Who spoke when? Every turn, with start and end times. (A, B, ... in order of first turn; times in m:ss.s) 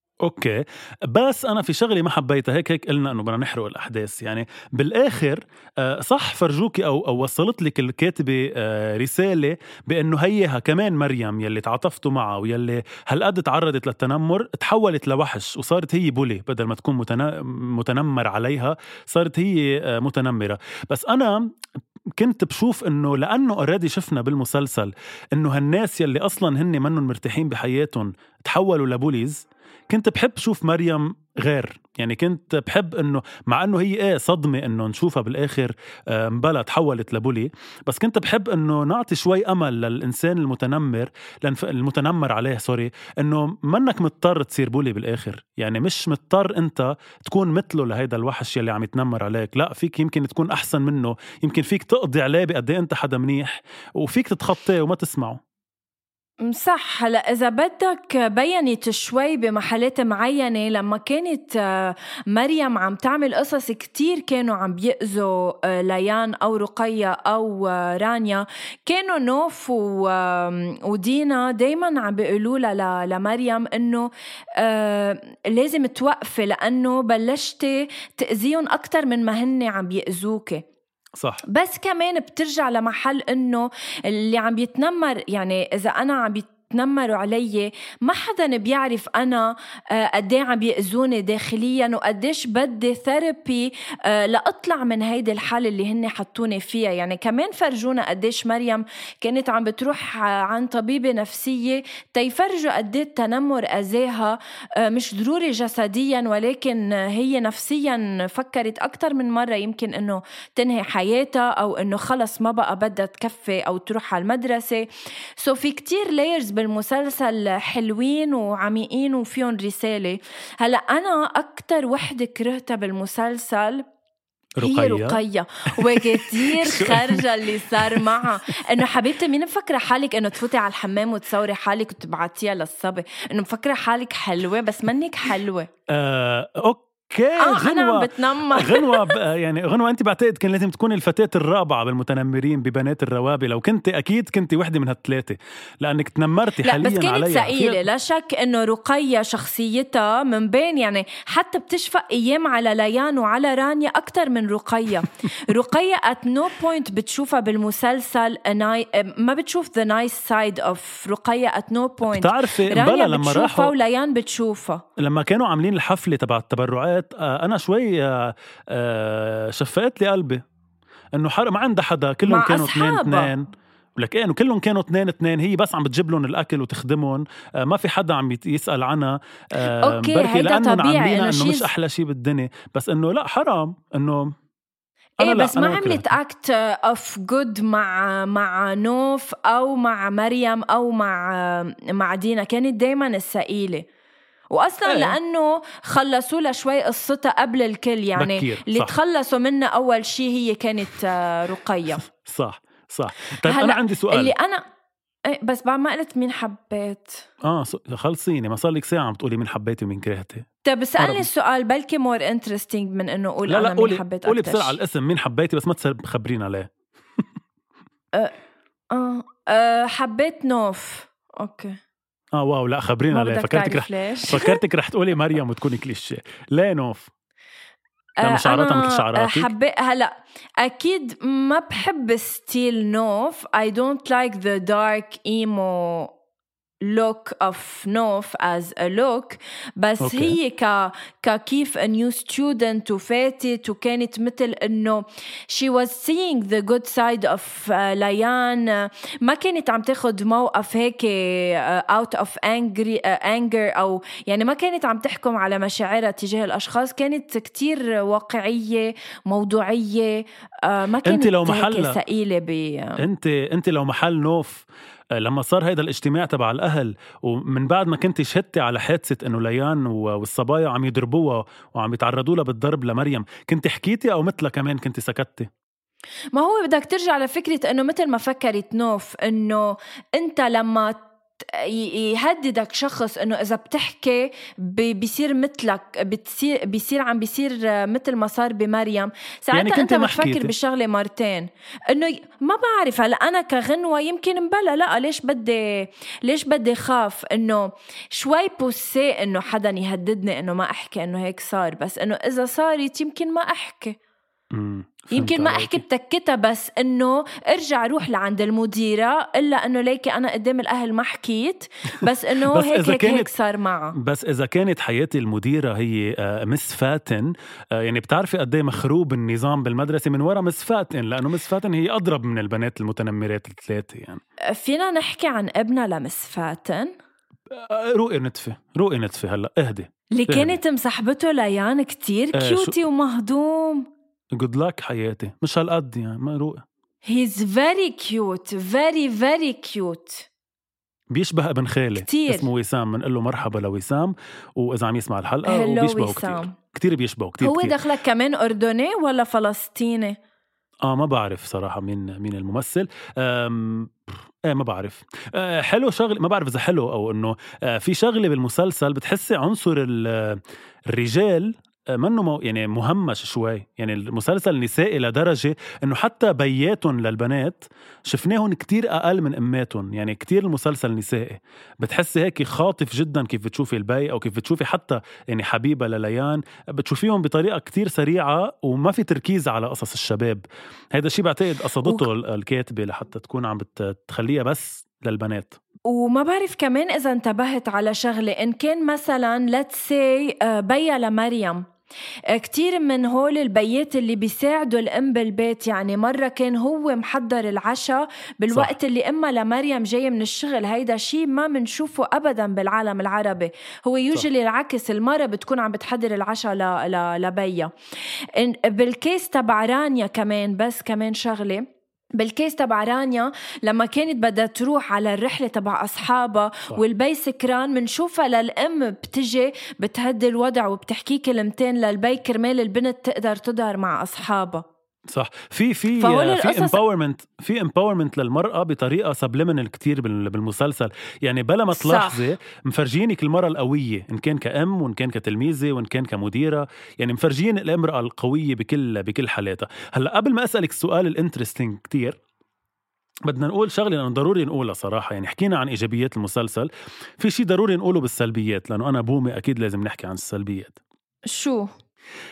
0:00.2-0:21.4 A
0:22.2-0:55.4 A
0:56.4-1:20.6 B
1:21.2-1:21.4 A
1:21.5-1:54.9 B
1:55.4-2:03.8 B
2:04.6-2:05.2 A
2:04.6-2:15.7 B
2:05.8-2:08.3 A
2:15.9-2:27.8 A
2:17.4-2:19.1 B
2:26.6-2:44.8 B
2:42.1-2:43.7 A
2:45.0-2:50.4 A
2:51.1-3:04.3 A
2:52.2-2:53.3 B
2:59.6-3:01.7 B
3:05.2-3:06.1 A
3:05.2-3:13.8 B
3:14.5-3:22.0 B
3:14.8-3:15.2 A
3:18.2-3:18.9 A
3:22.0-3:24.3 A
3:23.4-3:24.6 B
3:25.3-3:27.2 B
3:27.4-3:30.4 A
3:30.6-3:34.8 B
3:31.0-3:31.3 A
3:33.5-3:36.7 A
3:38.9-3:41.8 B
3:42.3-3:47.1 A
3:43.1-3:44.6 B
3:48.2-3:49.5 A
3:48.2-3:56.1 B
3:56.8-4:23.0 B
4:00.0-4:00.4 A
4:21.0-4:22.0 A
4:23.0-4:24.6 A
4:25.2-4:35.5 A
4:36.3-5:04.0 B
4:49.5-4:50.5 A
5:04.5-5:05.8 A
5:05.1-5:13.9 B
5:12.5-5:13.3 A
5:14.0-5:24.2 A
5:24.5-5:26.9 B
5:27.5-5:30.6 A
5:30.2-5:33.8 B
5:32.3-5:32.7 A
5:34.3-5:36.6 A
5:37.1-5:40.2 B
5:41.1-5:47.7 A
5:42.0-5:42.5 B
5:45.4-5:46.5 B
5:47.4-5:50.2 B
5:50.8-5:53.9 A
5:54.5-6:25.6 A
6:25.9-6:31.6 B
6:32.3-6:47.7 B
6:48.3-7:04.6 B
7:05.1-7:22.2 A
7:06.0-7:06.8 B
7:11.7-7:12.2 B
7:23.2-7:26.7 A
7:27.2-7:30.8 A
7:31.3-7:31.7 B